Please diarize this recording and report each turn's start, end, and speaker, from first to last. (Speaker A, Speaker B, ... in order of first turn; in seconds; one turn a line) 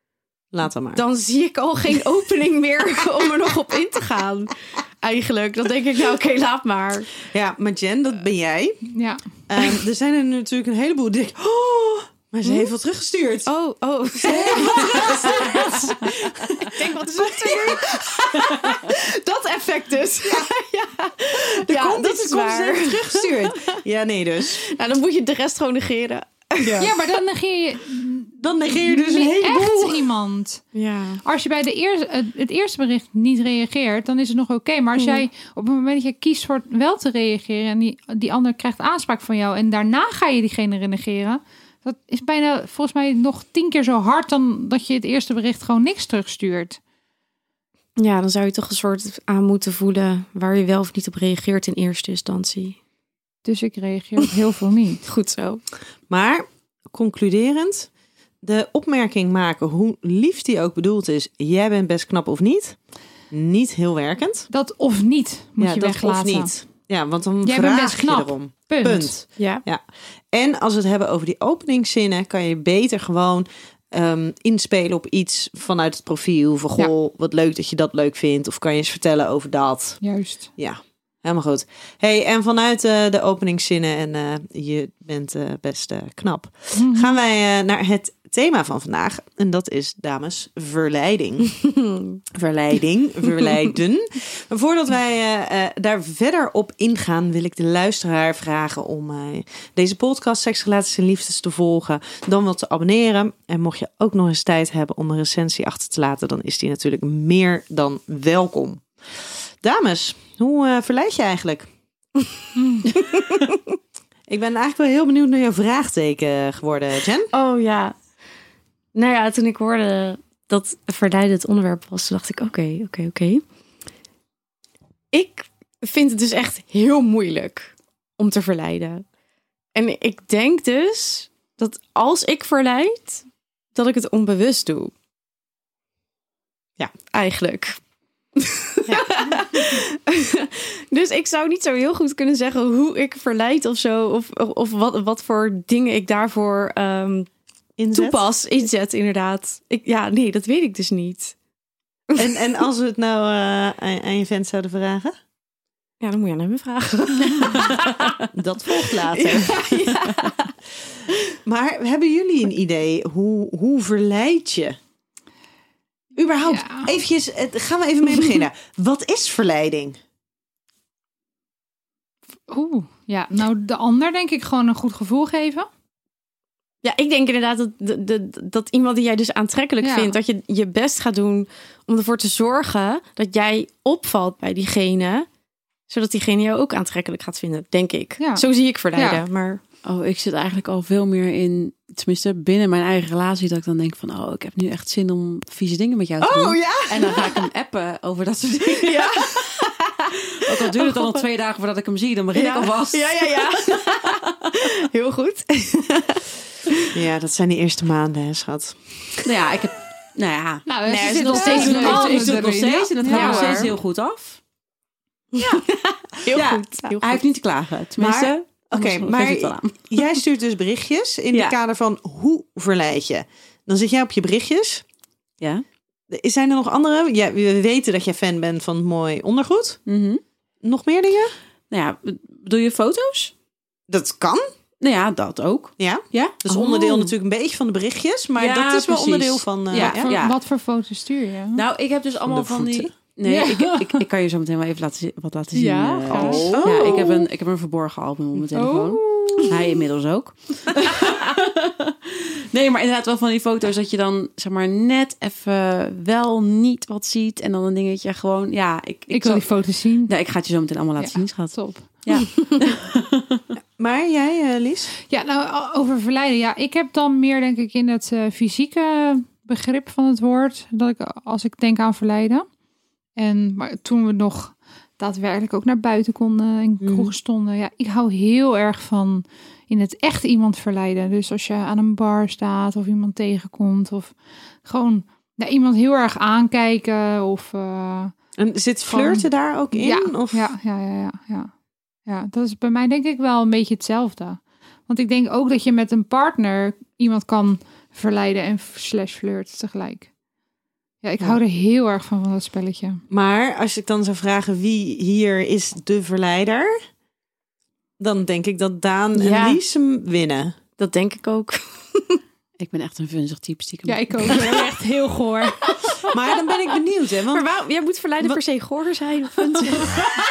Speaker A: 0.5-1.0
Speaker B: 0.9-7.1
Speaker A: 7.3-8.9
Speaker C: 8.9-9.2
Speaker A: 9.5-13.5
Speaker B: 13.4-23.8
Speaker A: 14.2-18.9
Speaker A: 21.6-24.7
Speaker B: 24.6-26.9
Speaker A: 26.6-27.0
Speaker C: 26.8-30.6
Speaker A: 28.4-30.1
Speaker B: 30.7-31.2
Speaker C: 31.2-46.8
Speaker B: 35.0-35.2
Speaker B: 48.0-52.8
Speaker C: 53.4-55.0
Speaker B: 55.0-55.6
Speaker A: 56.1-57.9
Speaker A: 58.4-62.8
Speaker A: 63.3-64.5
Speaker C: 64.5-66.5
Speaker A: 65.6-80.0
Speaker C: 67.4-69.2
Speaker B: 69.4-69.6
Speaker C: 80.0-80.5
Speaker A: 80.6-91.5
Speaker C: 86.7-87.2
Speaker B: 91.8-92.2
Speaker A: 92.3-111.7
Speaker C: 112.6-112.9
Speaker B: 112.9-113.5
Speaker A: 114.3-117.3
Speaker B: 117.3-118.0
Speaker B: 118.9-123.4
Speaker B: 125.1-129.0
Speaker B: 129.7-134.9
Speaker B: 137.1-137.8
Speaker B: 138.3-147.3
Speaker A: 138.9-139.2
Speaker A: 147.8-148.2
Speaker B: 147.9-151.3
Speaker A: 152.1-155.1
Speaker B: 156.0-157.9
Speaker A: 158.3-159.6
Speaker B: 159.1-160.5
Speaker A: 161.4-164.8
Speaker A: 166.1-170.0
Speaker C: 166.5-166.9
Speaker C: 172.5-175.7
Speaker B: 176.8-185.3
Speaker C: 179.8-180.2
Speaker B: 185.9-189.6
Speaker C: 188.2-189.2
Speaker D: 189.8-199.4
Speaker B: 196.2-197.3
Speaker B: 198.8-199.8
Speaker D: 200.4-203.8
Speaker B: 200.4-201.2
Speaker B: 202.3-206.8
Speaker A: 206.9-209.3
Speaker D: 209.2-214.4
Speaker C: 210.7-213.7
Speaker B: 210.9-212.5
Speaker A: 211.0-211.7
Speaker B: 213.0-213.7
Speaker B: 215.3-217.2
Speaker D: 216.3-220.1
Speaker A: 218.0-224.8
Speaker A: 226.1-229.8
Speaker D: 229.9-230.2
Speaker A: 230.6-231.3
Speaker D: 231.7-233.3
Speaker A: 233.9-234.4
Speaker D: 234.8-236.4
Speaker A: 235.8-240.1
Speaker B: 236.5-237.1
Speaker D: 238.4-240.3
Speaker C: 239.7-241.6
Speaker D: 241.5-259.5
Speaker A: 242.3-242.9
Speaker C: 243.2-244.0
Speaker B: 245.5-247.2
Speaker A: 246.1-246.9
Speaker B: 248.5-249.6
Speaker C: 259.1-260.1
Speaker D: 260.1-263.4
Speaker C: 261.0-262.2
Speaker A: 263.8-264.9
Speaker C: 265.1-272.5
Speaker C: 273.1-288.1
Speaker A: 276.8-277.1
Speaker A: 288.4-290.5
Speaker C: 289.8-291.5
Speaker C: 292.1-300.1
Speaker C: 301.0-303.0
Speaker A: 303.1-306.7
Speaker A: 308.0-310.6
Speaker B: 309.1-309.6
Speaker B: 310.8-312.2
Speaker D: 312.6-314.6
Speaker C: 313.9-315.6
Speaker B: 314.3-314.6
Speaker B: 315.4-316.1
Speaker A: 316.1-317.4
Speaker B: 317.3-320.1